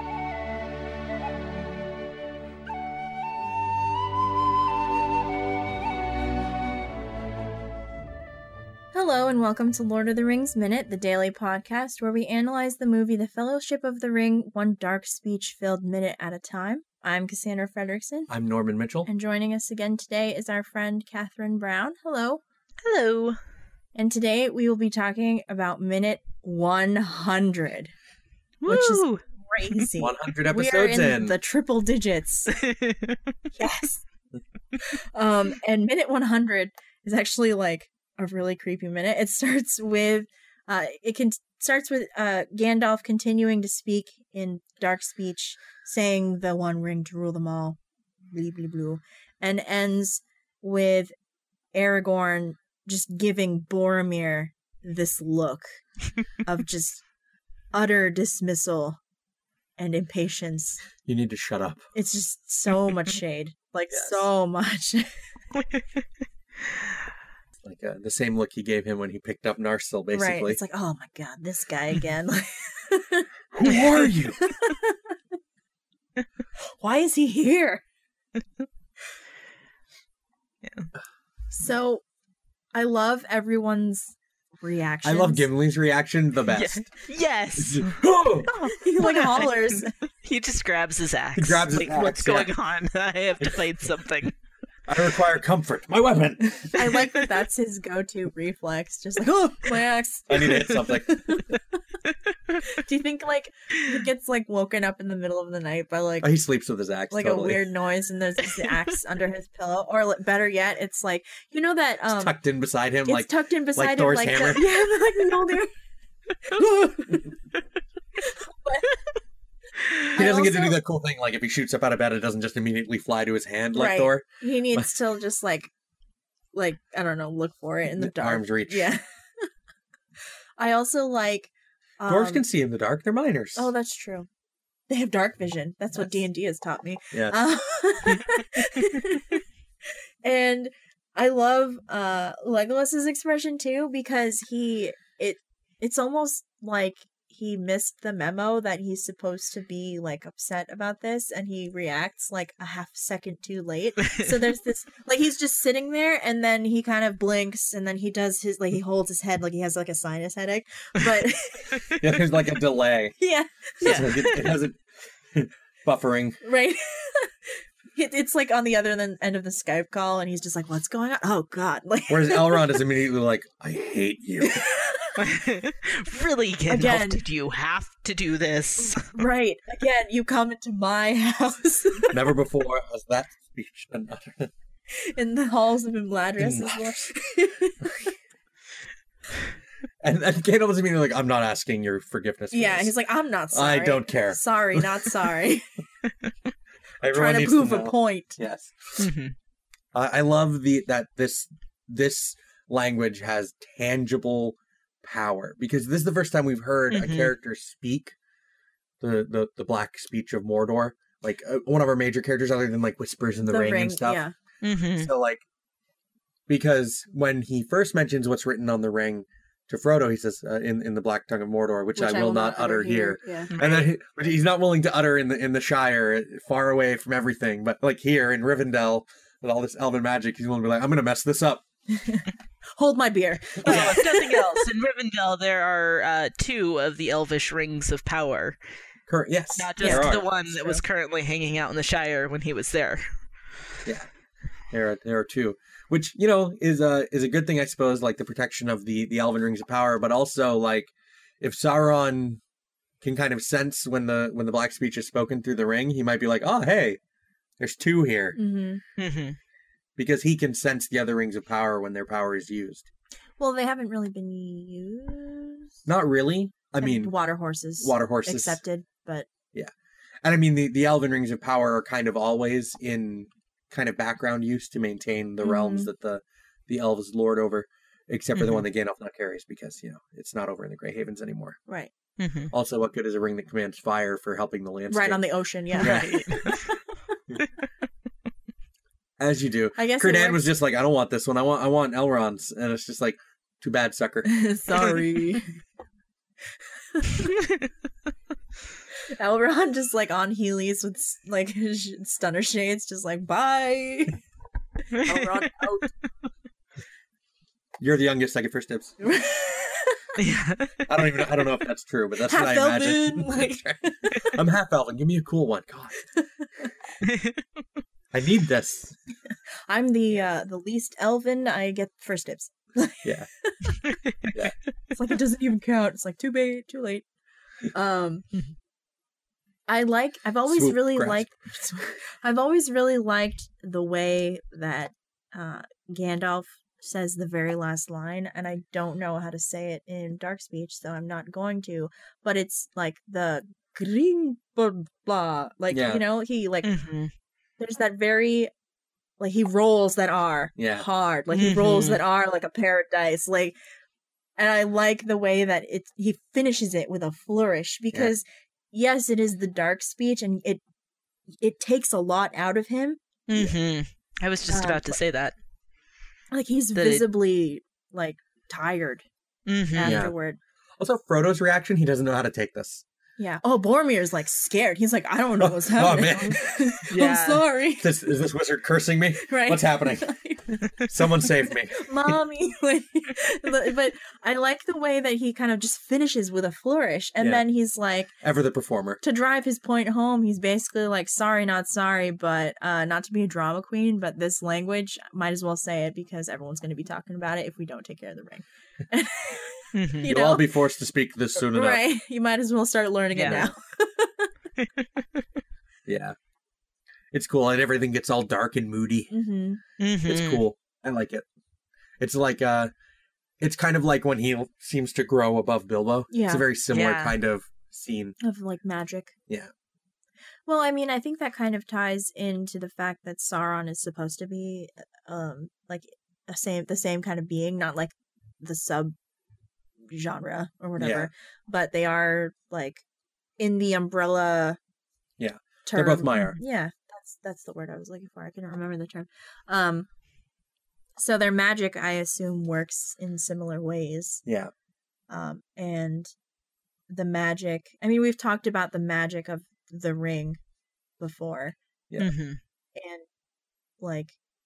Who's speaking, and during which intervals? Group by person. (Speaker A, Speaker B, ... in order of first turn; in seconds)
Speaker A: 8.9-18.3, 19.1-22.4, 23.9-27.9, 28.6-32.6, 33.5-34.0, 34.8-47.8, 48.3-51.1, 51.7-55.7, 56.4-57.0, 57.7-59.0, 59.8-60.8, 61.9-65.1, 70.1-73.3, 74.4-75.2, 76.8-77.8, 81.5-82.0, 82.7-85.5, 88.7-89.9, 96.7-101.5, 102.6-106.3, 107.1-112.3, 113.0-115.7, 118.2-119.0, 120.1-120.8, 123.7-125.7, 126.5-129.5, 130.6-132.4, 133.6-134.3, 134.9-139.4, 140.2-161.9, 163.2-164.6, 166.4-172.8, 174.4-175.2, 176.7-177.2, 178.8-182.2, 184.9-188.1, 192.5-195.7, 197.1-198.4, 213.4-214.3, 222.0-223.5, 231.9-234.7, 239.8-240.8, 258.4-258.8, 263.4-265.9, 266.8-269.3, 275.4-275.9, 284.9-286.7, 289.8-290.4, 294.3-295.4, 296.9-297.4, 299.1-304.2, 304.9-305.9, 309.0-310.2, 312.3-314.4, 316.4-316.7, 319.7-323.9, 324.9-327.1, 327.7-328.3, 329.7-346.8, 347.6-348.5, 349.2-353.6, 354.4-360.6, 361.4-363.0, 364.5-365.0, 366.3-369.1, 369.7-370.4, 373.2-377.9, 379.2-380.6, 381.7-388.1, 389.0-400.5, 401.4-404.3, 409.1-409.6, 416.1-416.5, 418.2-419.1, 420.5-428.9, 429.9-432.8, 433.4-434.6, 435.7-439.9, 441.0-444.2, 445.1-446.1, 446.9-450.4, 451.0-451.6, 452.8-453.1, 453.8-454.2
Speaker B: 18.3-19.1, 30.0-31.4, 61.0-61.8, 63.9-64.2, 67.6-70.6, 73.5-74.4, 85.0-86.9, 87.6-88.5, 91.4-92.5, 93.4-93.7, 94.9-96.8, 100.3-101.4, 106.2-107.6, 112.1-114.8, 116.5-117.3, 120.2-124.9, 128.0-128.9, 132.1-133.7, 161.9-163.2, 163.8-166.4, 172.1-174.7, 182.1-184.5, 186.4-186.9, 190.0-192.9, 193.5-195.1, 197.0-199.1, 199.9-208.2, 209.0-214.2, 215.0-215.4, 216.5-231.6, 233.6-234.1, 239.1-240.3, 244.7-252.4, 253.0-257.0, 257.6-258.4, 260.0-262.9, 265.9-267.1, 267.8-268.6, 270.2-281.6, 282.5-285.2, 285.8-286.4, 289.2-294.3, 307.8-309.0, 310.9-316.0, 318.1-319.0, 330.5-331.3, 345.7-346.0, 350.6-350.9, 369.8-370.1, 370.8-372.8, 375.4-376.6, 377.8-380.1, 380.7-382.1, 387.2-387.4, 388.2-389.0, 400.1-401.8, 403.2-403.5, 405.9-406.2, 407.1-409.1, 410.1-411.2, 412.0-412.7, 413.4-418.2, 430.8-431.1, 435.2-436.4, 444.3-444.5
Speaker C: 22.8-23.4, 28.6-29.2, 32.5-33.2, 65.5-65.8, 66.6-67.0, 80.6-80.9, 86.5-94.3, 163.8-164.1, 175.2-179.1, 199.0-199.3, 206.9-207.3, 214.6-215.1, 223.5-223.9, 233.7-238.6, 239.6-243.1, 259.0-259.4, 278.4-278.6, 282.2-282.5, 285.8-286.6, 304.9-305.5, 310.2-310.8, 317.0-317.4, 346.6-347.1, 351.3-352.0, 363.3-365.4, 366.8-367.1, 369.5-370.0, 376.9-377.5, 399.7-400.1, 403.1-403.4, 409.8-410.4, 416.7-417.2, 452.0-452.4